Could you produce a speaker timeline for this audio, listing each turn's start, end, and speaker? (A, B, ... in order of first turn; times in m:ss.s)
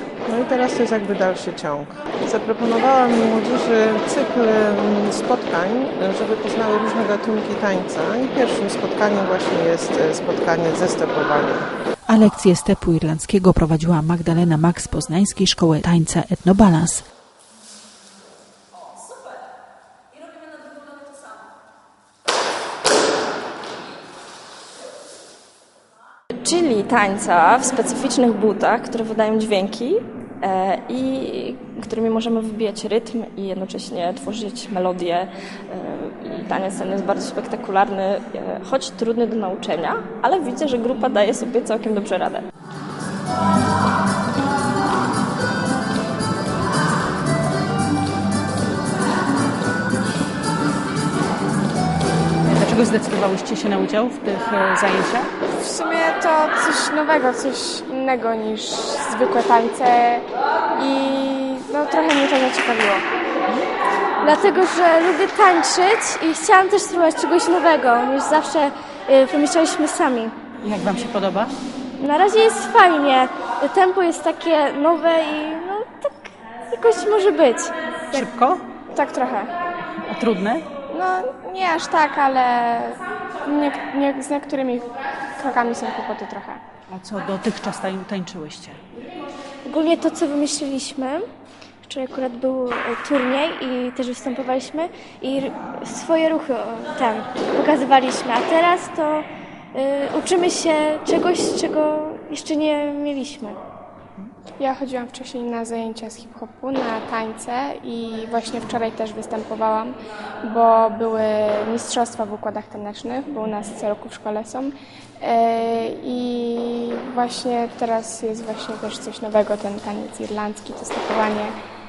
0:00.2-0:11.7 A
0:12.1-0:17.0 B
0:26.4-0:42.4 C
0:52.4-0:55.3 D
0:55.5-1:03.1 E
1:04.2-1:10.3 F
1:10.6-1:11.5 D
1:12.0-1:18.2 F
1:18.1-1:18.6 D
1:18.9-1:19.5 E
1:20.1-1:20.7 D
1:20.9-1:26.6 E
1:26.9-1:28.8 D
1:29.6-1:31.2 F
1:31.8-1:43.6 F
1:44.6-2:01.5 E